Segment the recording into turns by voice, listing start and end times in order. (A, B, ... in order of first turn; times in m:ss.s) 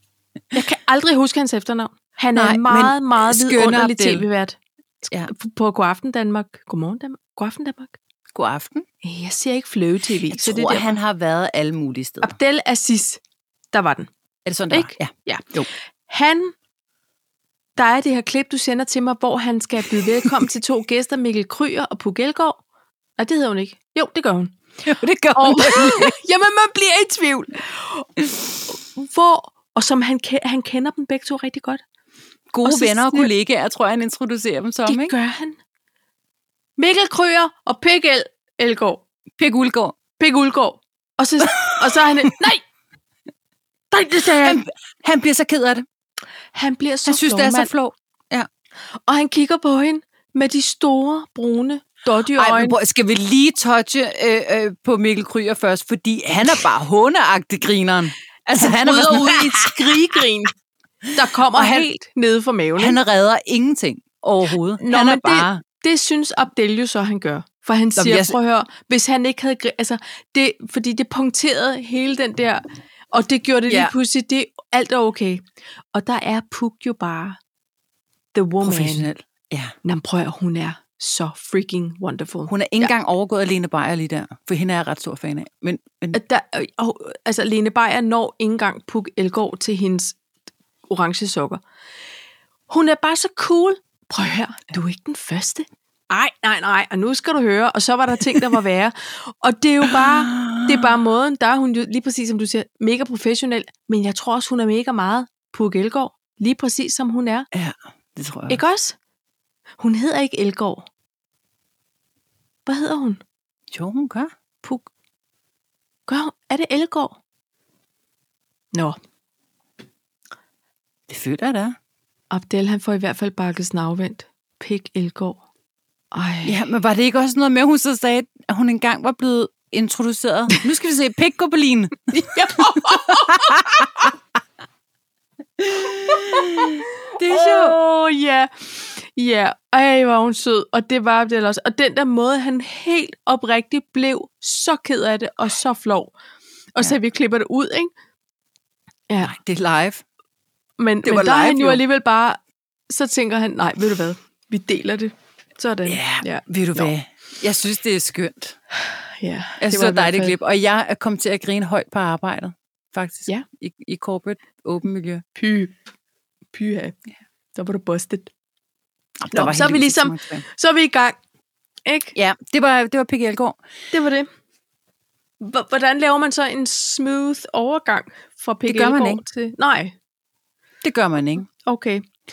0:00.5-0:04.6 A
0:02.3-0:04.2 B
0:05.2-0:08.0 A
0:08.3-0:08.8 B
0:09.0-0:11.0 A
0:10.3-0:12.3 B
0:12.2-0:13.2 A
0:13.7-0:14.1 A
0:14.4-0:15.7 B
0:14.7-0:15.5 A
0:16.0-0:16.5 A
0:17.8-0:22.6 A
0:23.2-0:24.6 A
0:24.8-0:26.2 B
0:25.3-0:31.8 A
0:32.5-0:35.1 B
0:32.6-0:33.3 A
0:34.8-0:35.6 A
0:36.8-0:39.0 A
0:39.4-0:40.0 B
0:40.2-0:42.6 A
0:41.4-0:42.3 B
0:43.9-0:44.6 A
0:44.2-0:45.8 B
0:46.5-0:47.7 A
0:47.1-0:48.5 B
0:49.1-0:52.8 A
0:52.3-1:00.2 B
0:58.5-1:00.5 A
1:01.1-1:03.0 A
1:01.5-1:01.8 B
1:02.8-1:05.6 B
1:04.8-1:17.4 A
1:08.0-1:08.3 B
1:13.7-1:13.9 B
1:18.3-1:19.1 A
1:18.6-1:19.7 B
1:19.8-1:22.9 A
1:22.5-1:26.2 B
1:26.1-1:30.2 A
1:30.9-1:31.6 A
1:32.7-1:47.5 A
1:39.8-1:40.9 B
1:47.5-1:48.6 B
1:48.5-1:49.0 A
1:49.8-1:50.9 A
1:52.6-1:53.2 A
1:53.7-1:54.3 B
1:54.6-1:54.9 A
1:56.1-1:57.2 A
2:01.1-2:01.8 B
2:02.3-2:05.4 A
2:06.1-2:06.6 A
2:06.4-2:13.9 B
2:12.1-2:14.1 A
2:15.6-2:17.8 B
2:15.9-2:26.1 A
2:26.8-2:27.9 A
2:29.1-2:29.3 A
2:29.2-2:30.0 B
2:30.8-2:32.4 A
2:31.0-2:31.8 B
2:32.9-2:36.9 A
2:35.8-2:38.6 B
2:38.7-2:40.4 A
2:39.6-2:45.2 B
2:45.4-2:45.7 A
2:46.5-2:47.0 A
2:47.5-2:48.3 A
2:49.2-2:50.4 B
2:49.3-2:51.2 A
2:51.8-2:52.1 A
2:52.1-2:53.6 B
2:53.9-2:54.3 A
2:55.4-2:59.9 A
2:58.7-2:59.2 B
3:00.8-3:01.5 B
3:01.6-3:02.0 A